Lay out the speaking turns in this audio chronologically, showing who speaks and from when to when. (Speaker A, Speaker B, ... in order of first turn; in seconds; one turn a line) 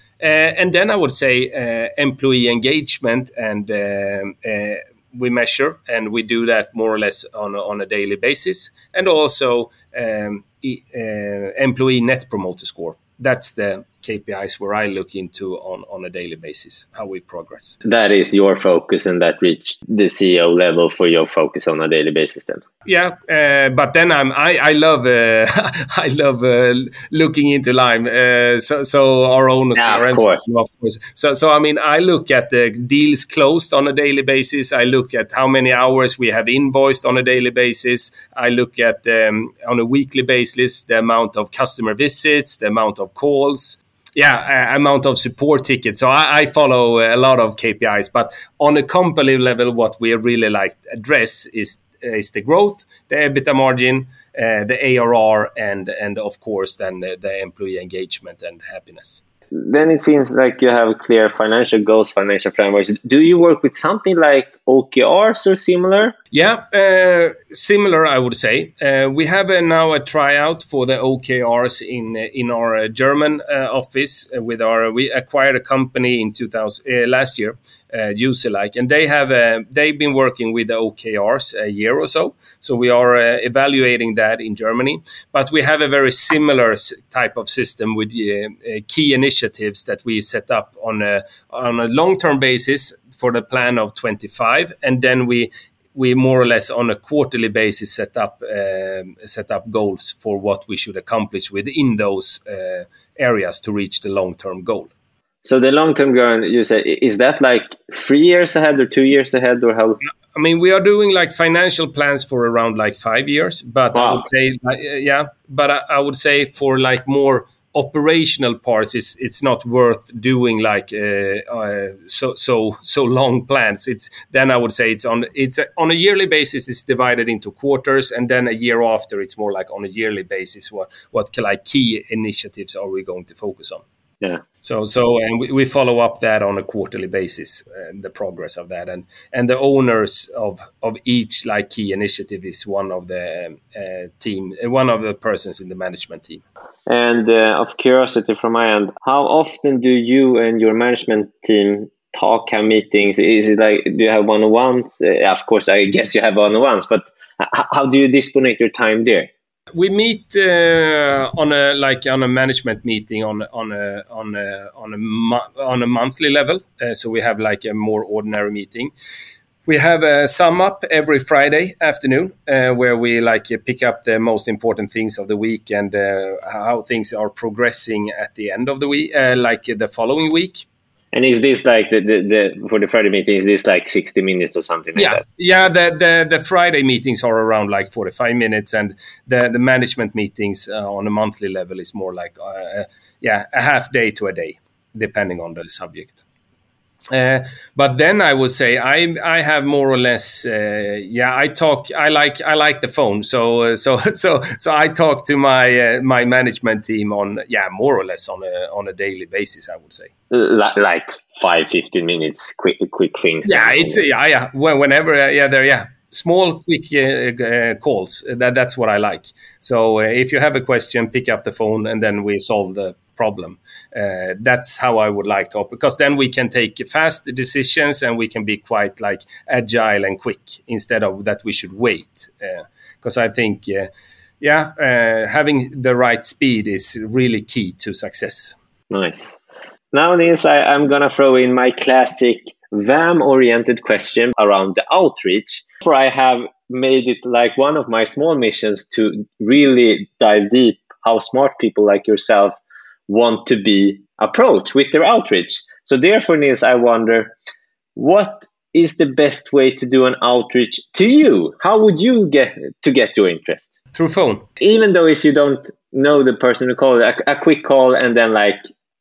Speaker A: 0.2-17.8
Speaker B: 17.8-22.6
Speaker A: 22.9-59.2
Speaker B: 29.8-30.4
Speaker B: 59.5-66.1
Speaker A: 66.3-104.9
Speaker B: 105.4-110.0
Speaker A: 110.3-133.8
Speaker B: 113.9-114.2
Speaker A: 134.6-146.4
Speaker B: 146.9-159.3
Speaker A: 159.7-168.9
Speaker A: 169.7-180.7
Speaker B: 181.1-185.2
Speaker A: 184.9-196.2
Speaker A: 197.1-210.1
Speaker B: 210.3-214.0
Speaker A: 213.4-233.9
Speaker A: 234.4-238.6
Speaker B: 238.9-239.4
Speaker B: 239.9-257.3
Speaker B: 257.9-263.7
Speaker A: 263.9-264.4
Speaker B: 264.6-268.6